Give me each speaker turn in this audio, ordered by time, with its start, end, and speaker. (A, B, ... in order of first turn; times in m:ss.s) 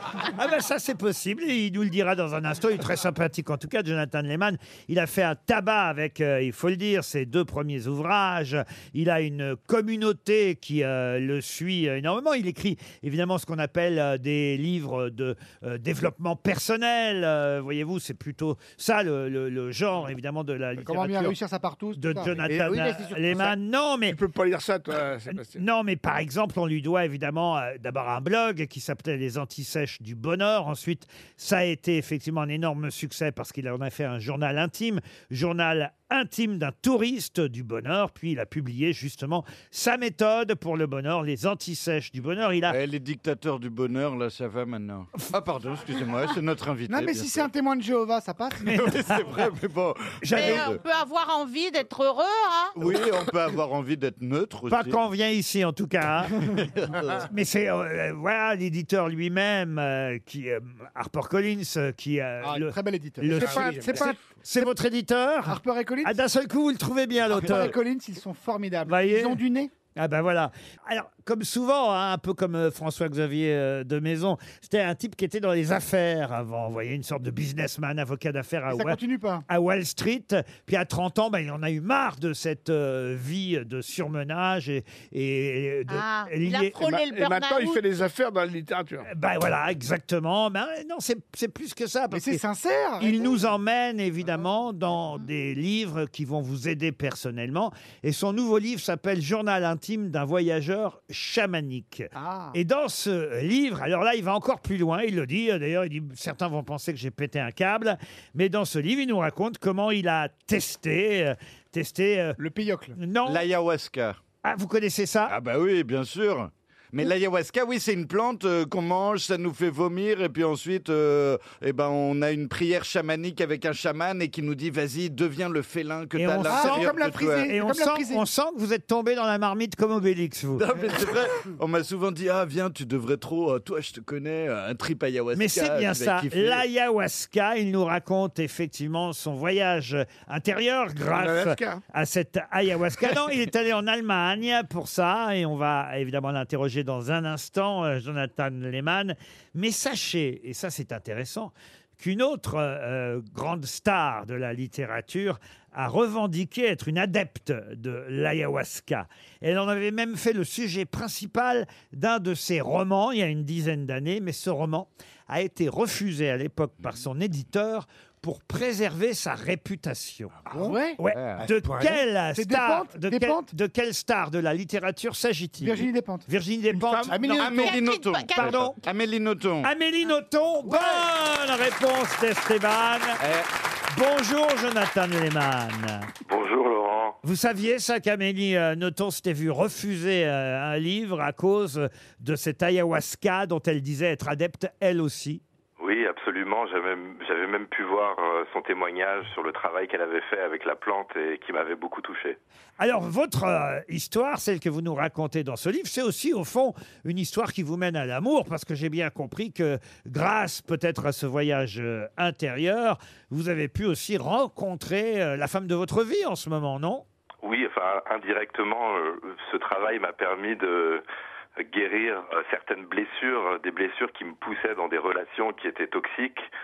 0:00.2-0:21.4 A
0:20.8-0:23.4 B
0:22.0-0:24.2 A
0:24.1-0:25.6 C
0:25.3-0:42.8 A
0:42.7-0:47.5 D
0:46.9-0:48.8 B
0:48.6-0:50.8 D
0:48.7-0:49.1 A
0:50.2-0:50.7 A
0:50.3-0:52.8 E
0:52.8-0:55.0 D
0:54.7-0:56.5 A
0:56.5-0:57.1 D
0:57.2-1:07.8 A
1:02.4-1:04.6 B
1:03.3-1:04.1 C
1:05.4-1:06.2 B
1:07.3-1:09.7 B
1:08.9-1:09.4 A
1:10.0-1:27.1 A
1:18.7-1:19.4 B
1:25.9-1:27.8 E
1:27.1-1:29.1 C
1:29.1-1:32.4 A
1:32.1-1:33.3 B
1:33.0-1:52.4 A
1:42.1-1:42.6 B
1:52.4-1:53.0 B
1:53.0-1:53.5 A
1:53.2-1:54.2 D
1:54.4-1:55.3 A
1:55.3-2:07.5 D
2:06.2-2:06.9 A
2:06.4-2:08.2 B
2:07.5-2:10.7 A
2:10.6-2:16.6 D
2:15.3-2:50.4 A
2:21.1-2:21.8 C
2:50.5-2:51.4 D
2:50.5-2:53.5 B
2:51.0-2:57.8 A
2:55.6-2:56.3 B
2:56.8-2:57.2 C
2:57.1-2:57.5 B
2:57.3-2:59.7 D
2:57.4-2:58.6 E
2:58.3-2:58.8 A
2:59.6-3:03.2 A
3:00.6-3:01.0 B
3:03.2-3:03.5 D
3:03.9-3:06.1 A
3:06.3-3:07.2 F
3:07.2-3:15.4 A
3:15.8-3:22.4 F
3:22.8-3:37.0 A
3:37.4-3:41.0 F
3:41.6-3:46.5 F